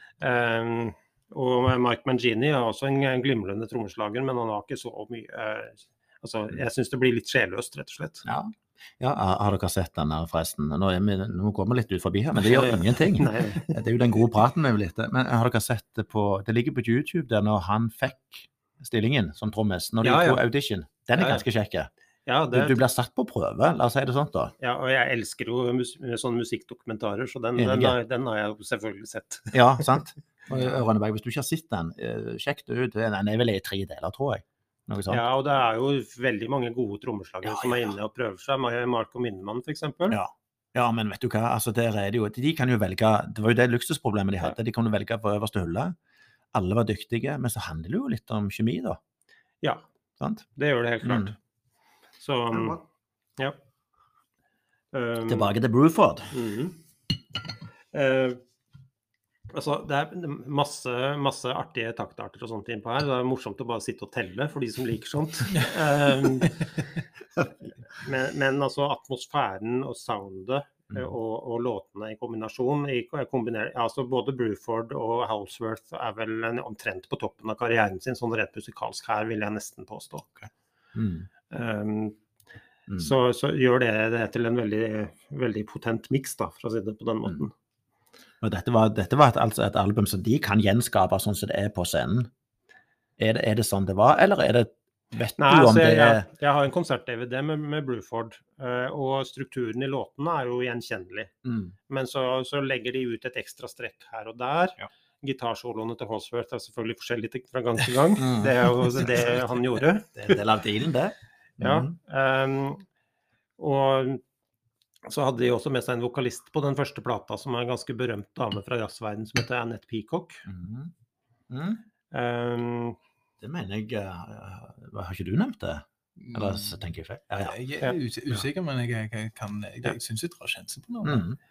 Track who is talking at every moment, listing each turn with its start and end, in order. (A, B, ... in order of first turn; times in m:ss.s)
0:00.2-0:08.3 A
0:08.2-0:21.9 B
0:12.4-0:13.8 A
0:20.0-0:20.4 A
0:21.2-0:21.4 A
0:22.3-0:22.8 A
0:22.5-0:24.5 B
0:24.6-0:29.9 A
0:27.6-0:28.0 B
0:29.5-0:35.2 B
0:35.1-0:40.2 A
0:37.4-0:37.9 B
0:40.1-0:46.0 B
0:46.5-0:49.0 B
0:50.2-0:50.5 B
0:50.6-0:51.4 A
0:51.0-0:51.3 B
0:52.2-0:52.8 A
0:52.5-0:52.8 B
0:54.9-0:55.5 A
0:55.2-0:56.3 B
0:56.3-0:56.8 A
0:57.9-0:58.4 A
0:59.5-1:06.7 A
1:07.9-1:20.3 A
1:20.4-1:21.3 B
1:21.5-1:22.2 A
1:22.9-1:23.1 B
1:23.0-1:27.5 A
1:28.4-1:32.3 B
1:33.2-1:36.3 B
1:35.4-1:41.3 A
1:41.4-1:41.8 B
1:41.9-1:50.1 A
1:48.2-1:49.3 B
1:50.1-1:51.9 B
1:51.6-1:52.8 A
1:53.6-1:54.2 A
1:55.1-2:00.4 A
2:00.5-2:00.9 B
2:01.5-2:01.8 B
2:02.1-2:03.0 A
2:03.4-2:07.6 B
2:06.2-2:06.8 C
2:07.5-2:11.2 C
2:11.0-2:11.4 B